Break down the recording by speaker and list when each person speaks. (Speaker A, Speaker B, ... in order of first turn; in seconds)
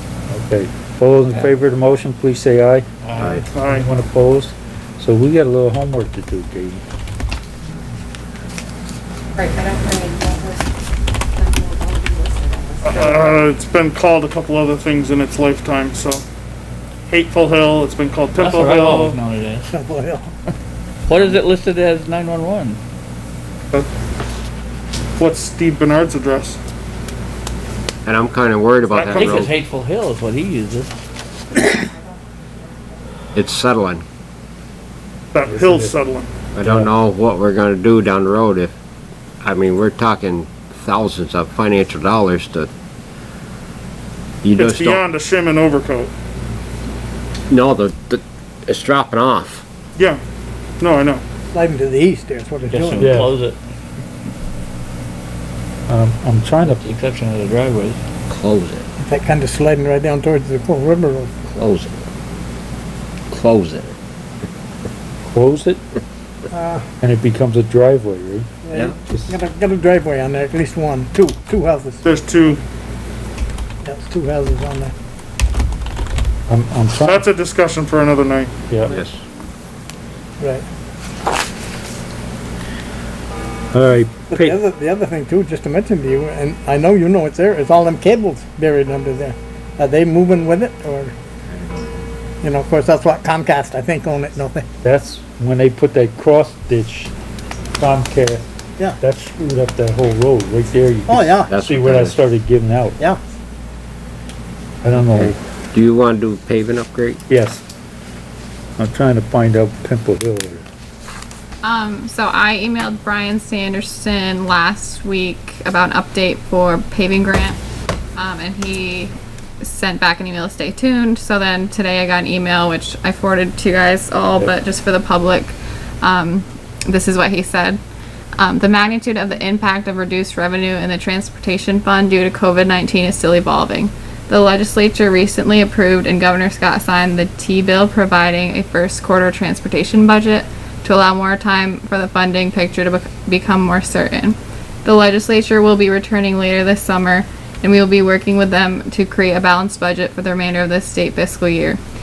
Speaker A: 0.3-2.9, 3.6-6.8, 35.5-35.9, 53.0-53.3, 55.9-56.8, 65.2-65.8, 67.0-68.5, 69.1-69.4, 76.5-77.2, 83.7-84.6, 94.8-97.1, 97.8-98.4, 99.0-103.0, 104.8-105.3, 107.3-107.6, 108.8-110.7
Speaker B: 3.0-3.4, 18.4-19.8, 21.1-22.8, 29.1-31.0, 52.7-53.6, 56.6-58.0
Speaker C: 3.2-3.5, 28.1-29.5, 33.3-34.0, 36.5-38.8, 39.4-42.7, 44.4-45.0, 47.5-49.6, 58.3-58.9, 61.6-62.0, 63.3-64.0, 78.9-79.2, 101.5-102.2, 105.1-107.2
Speaker D: 3.5-3.9, 12.8-16.2, 17.1-19.2, 25.2-26.6, 28.8-29.5, 35.3-36.3, 44.5-46.1, 50.0-50.2, 50.8-51.2, 72.0-72.6, 77.0-78.5
Speaker E: 9.4-10.7, 11.3-13.5
Speaker F: 19.7-20.3, 51.5-53.1, 59.0-61.5, 66.5-66.9, 68.6-72.0, 73.8-74.9, 80.4-80.7, 84.3-91.1, 92.4-94.7, 101.1-101.5
Speaker G: 111.6-117.6, 118.2-127.8, 128.4-151.8